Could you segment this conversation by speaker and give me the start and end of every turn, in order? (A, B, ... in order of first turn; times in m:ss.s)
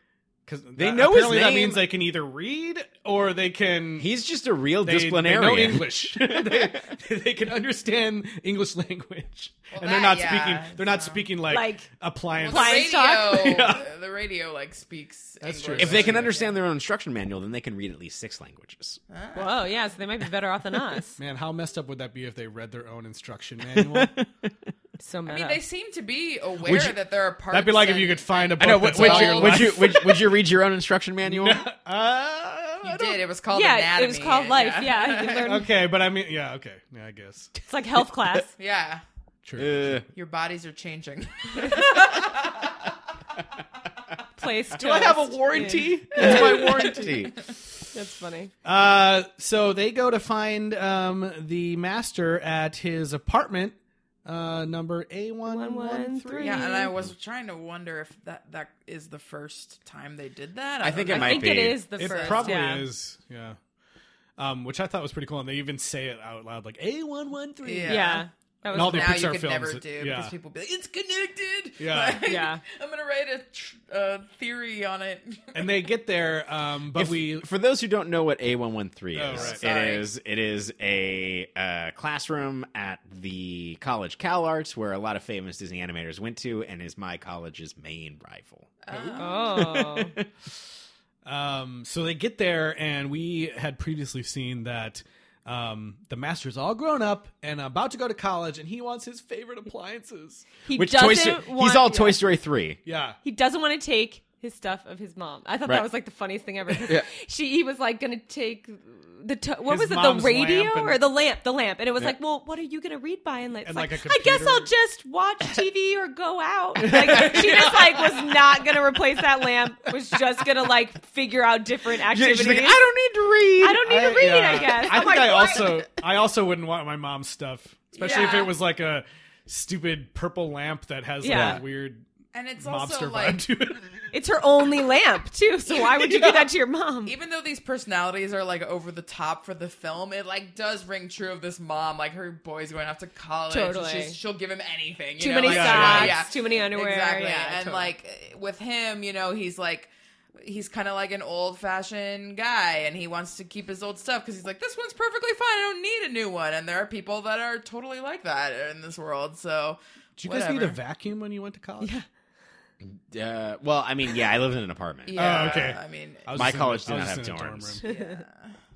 0:00.5-0:04.1 A
0:00.8-0:01.9 B
0:04.0-0:06.8 B
0:04.8-0:13.9 A
0:09.7-0:11.2 C
0:11.5-0:11.9 D
0:12.4-0:16.6 C
0:12.5-0:13.6 D
0:15.4-0:16.3 A
0:15.8-0:19.0 B
0:19.1-0:19.7 C
0:19.3-0:21.2 D
0:21.2-0:24.1 A
0:23.7-0:24.5 B
0:25.0-0:25.6 D
0:25.3-0:29.9 C
0:26.7-0:27.0 A
0:27.5-0:30.3 A
0:28.6-0:31.6 B
0:31.2-0:33.2 A
0:32.8-0:35.4 C
0:33.5-0:35.7 D
0:35.4-0:37.5 A
0:37.6-0:38.5 D
0:38.6-0:39.0 C
0:39.4-0:40.0 A
0:39.6-0:40.0 B
0:40.1-0:42.7 C
0:44.4-0:46.7 D
0:44.8-0:47.1 A
0:46.1-0:47.4 B
0:47.9-0:48.5 D
0:48.6-0:56.7 A
0:55.5-0:56.9 D
0:56.4-1:02.7 C
1:00.8-1:01.9 B
1:01.1-1:02.9 D
1:02.0-1:03.6 A
1:04.4-1:08.1 A
1:07.6-1:15.8 C
1:07.9-1:09.2 D
1:08.7-1:10.3 A
1:11.8-1:12.2 A
1:12.2-1:12.6 D
1:15.5-1:17.5 A
1:17.0-1:30.2 B
1:19.2-1:19.6 A
1:19.3-1:20.1 C
1:28.8-1:29.6 C
1:29.2-1:30.1 D
1:31.2-1:40.5 A
1:40.7-1:42.2 D
1:40.7-1:42.8 B
1:42.8-1:43.2 A
1:43.2-2:02.9 D
1:49.7-1:51.0 A
1:53.6-1:54.7 A
1:56.8-1:58.4 A
1:57.2-1:57.4 B
2:02.1-2:03.9 B
2:03.6-2:05.8 D
2:03.8-2:12.0 A
2:08.0-2:08.5 C
2:08.0-2:08.5 D
2:11.2-2:11.6 D
2:11.3-2:11.6 B
2:12.3-2:13.4 C
2:12.6-2:14.0 A
2:14.1-2:17.2 D
2:17.0-2:40.8 C
2:23.5-2:24.2 D
2:25.2-2:27.9 D
2:25.4-2:26.2 A
2:40.2-2:42.0 A
2:42.8-2:45.2 B
2:45.1-2:46.3 C
2:45.2-2:47.8 A
2:46.3-2:47.8 B
2:47.8-2:48.2 D
2:47.8-2:48.6 C